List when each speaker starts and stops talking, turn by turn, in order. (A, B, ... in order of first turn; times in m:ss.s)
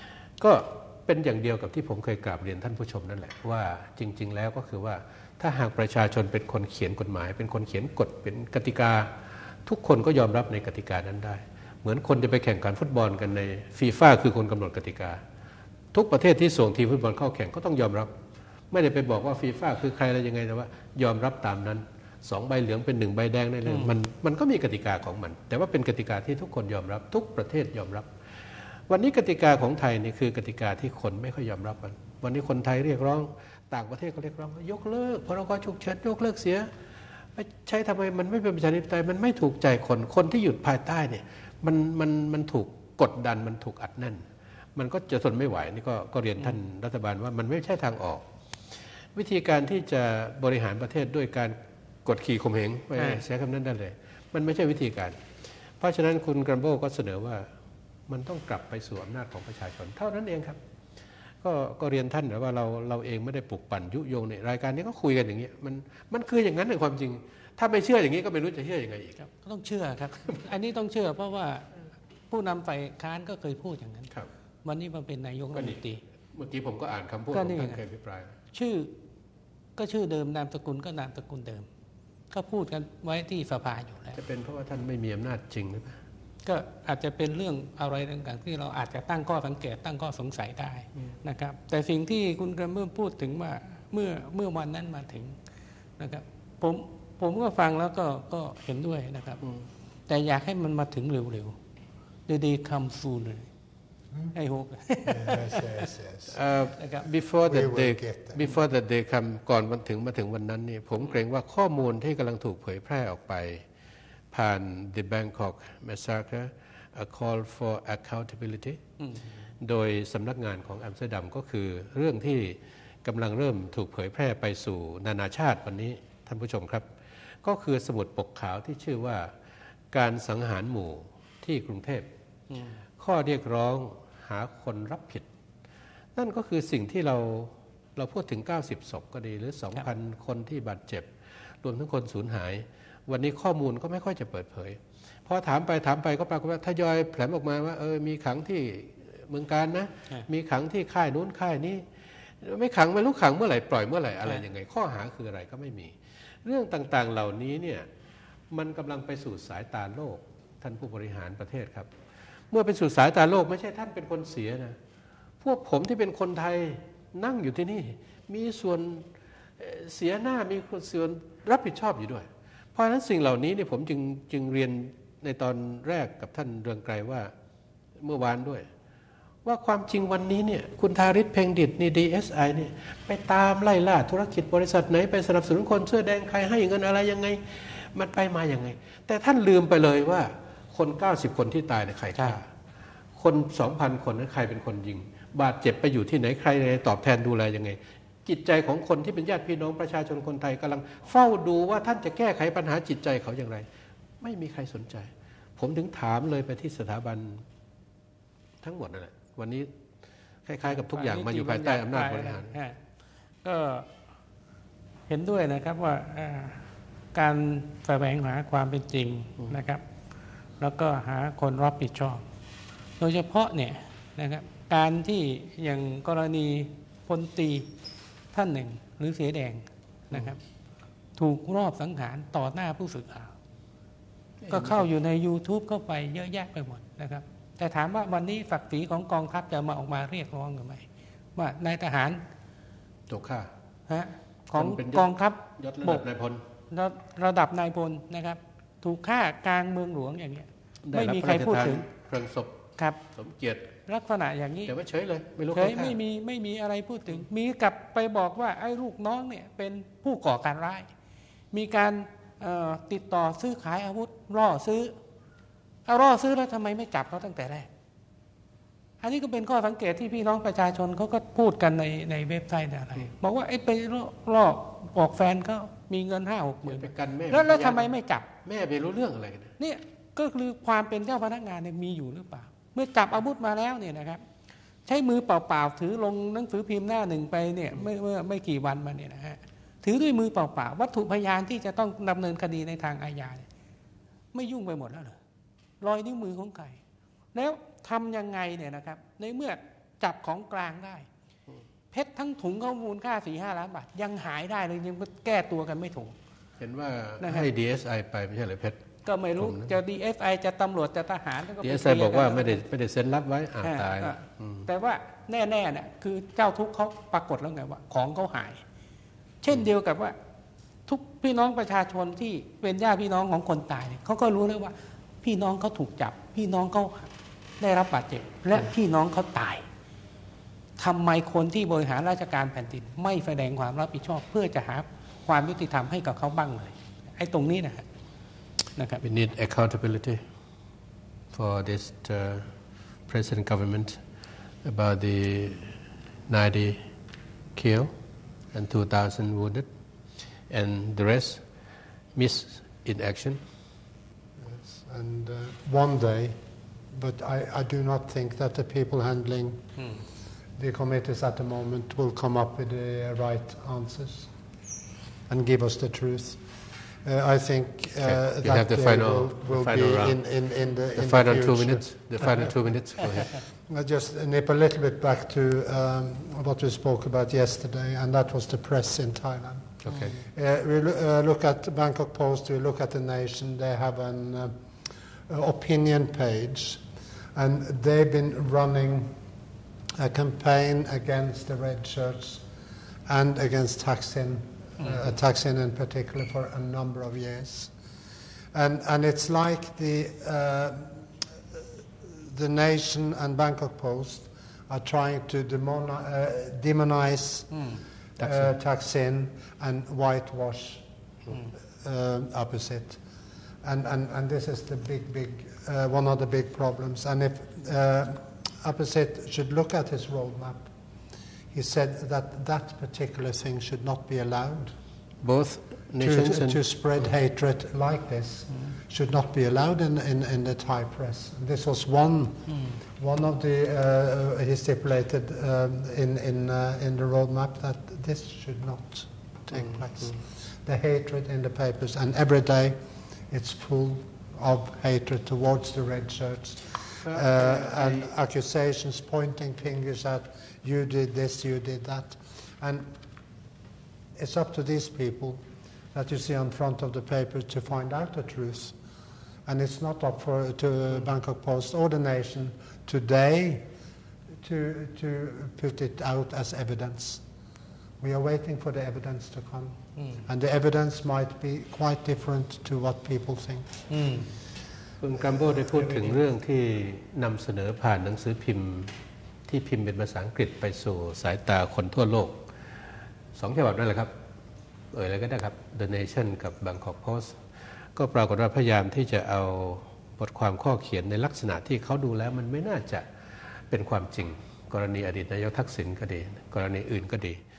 0:00.4-0:15.2 A
0:15.9-0:18.1 A
0:18.7-0:28.1 A
0:23.7-0:23.9 B
0:28.8-0:36.7 A
0:37.4-0:44.2 A
0:44.8-0:48.2 A
0:49.1-0:55.2 A
0:53.0-0:53.2 B
0:55.8-0:57.5 A
0:58.1-1:00.6 A
1:01.4-1:09.2 A
1:09.2-1:11.7 B
1:12.3-1:14.1 B
1:14.6-1:16.0 B
1:15.5-1:15.8 A
1:16.3-1:18.4 A
1:17.3-1:17.8 B
1:18.5-1:18.9 B
1:19.8-1:21.7 B
1:22.3-1:24.2 B
1:24.1-1:26.0 A
1:26.4-1:35.4 B
1:36.0-1:39.4 B
1:39.4-1:39.7 A
1:40.1-1:41.6 B
1:42.3-1:43.5 B
1:44.3-1:45.8 B
1:45.0-1:46.4 C
1:46.3-1:53.6 A
1:46.8-1:47.1 B
1:47.5-1:48.5 C
1:54.3-1:58.8 A
1:59.6-2:06.9 A
2:07.4-2:09.3 A
2:09.9-2:12.1 A
2:12.5-2:12.8 B
2:13.0-2:15.3 A
2:16.2-2:37.9 A
2:38.5-2:41.9 A
2:42.5-2:44.8 A
2:45.4-2:49.1 A
2:49.6-2:57.3 A
2:58.0-2:58.7 A
2:59.4-3:12.5 A
3:13.2-3:23.7 A
3:24.2-3:27.4 A
3:28.6-3:29.7 A
3:30.5-3:32.6 A
3:30.6-3:32.8 B
3:33.4-3:33.9 B
3:35.1-3:36.6 B
3:37.1-3:39.8 B
3:40.6-3:42.2 B
3:43.0-3:47.7 B
3:48.3-3:50.4 B
3:51.2-3:53.3 B
3:54.4-3:54.9 A
3:54.5-4:00.8 B
4:01.4-4:02.2 B
4:03.1-4:03.5 A
4:03.9-4:06.0 B
4:04.5-4:06.4 A
4:06.7-4:11.9 B
4:10.8-4:12.6 A
4:13.1-4:13.7 A
4:13.9-4:14.7 B
4:14.7-4:16.0 A
4:15.5-4:20.9 B
4:21.5-4:25.0 B
4:25.9-4:27.7 B
4:29.0-4:38.3 B
4:36.6-4:37.9 A
4:38.4-4:39.5 A
4:39.6-4:44.2 B
4:44.9-4:53.5 B
4:54.3-4:55.2 B
4:55.8-4:56.8 B
4:57.3-5:01.1 B
5:01.9-5:06.1 B
5:06.6-5:08.8 A
5:07.2-5:07.5 B
5:09.0-5:12.6 B
5:09.4-5:09.7 A
5:11.6-5:14.7 A
5:13.6-5:18.6 B
5:19.4-5:20.2 B
5:20.9-5:29.6 B
5:30.8-5:37.8 B
5:38.8-5:39.0 B
5:39.0-5:40.2 A
5:41.3-5:42.5 A
5:43.1-5:44.0 A
5:44.6-5:45.7 A
5:46.3-5:46.8 A
5:47.6-5:47.9 A
5:48.5-5:49.7 A
5:50.5-5:51.4 A
5:52.2-5:53.4 A
5:54.4-5:56.4 C
5:56.9-5:59.6 C
5:59.8-6:00.0 B
6:00.6-6:04.3 C
6:05.3-6:06.4 C
6:07.0-6:24.6 C
6:08.0-6:10.2 A
6:11.0-6:13.4 A
6:19.8-6:20.2 A
6:25.3-6:26.8 C
6:27.4-6:29.2 C
6:30.0-6:32.4 C
6:33.1-6:37.7 C
6:38.5-6:41.1 C
6:42.0-6:47.6 C
6:48.2-6:48.5 A
6:48.2-6:50.8 C
6:51.5-6:53.0 C
6:53.6-7:00.7 C
7:01.5-7:04.7 C
7:05.2-7:07.1 A
7:06.0-7:22.8 C
7:12.5-7:12.8 B
7:19.5-7:20.2 A
7:23.3-7:32.9 C
7:27.0-7:28.1 A
7:34.2-7:35.4 C
7:35.9-7:38.8 C
7:39.5-7:43.7 C
7:44.4-7:47.2 C
7:48.0-7:53.8 C
7:50.0-7:50.2 B
7:53.9-7:54.3 B
7:55.0-7:59.0 A
7:55.4-7:56.2 C
7:59.5-8:02.4 A
8:03.4-8:04.1 A
8:04.9-8:07.4 A
8:08.0-8:13.1 A
8:13.7-8:17.4 A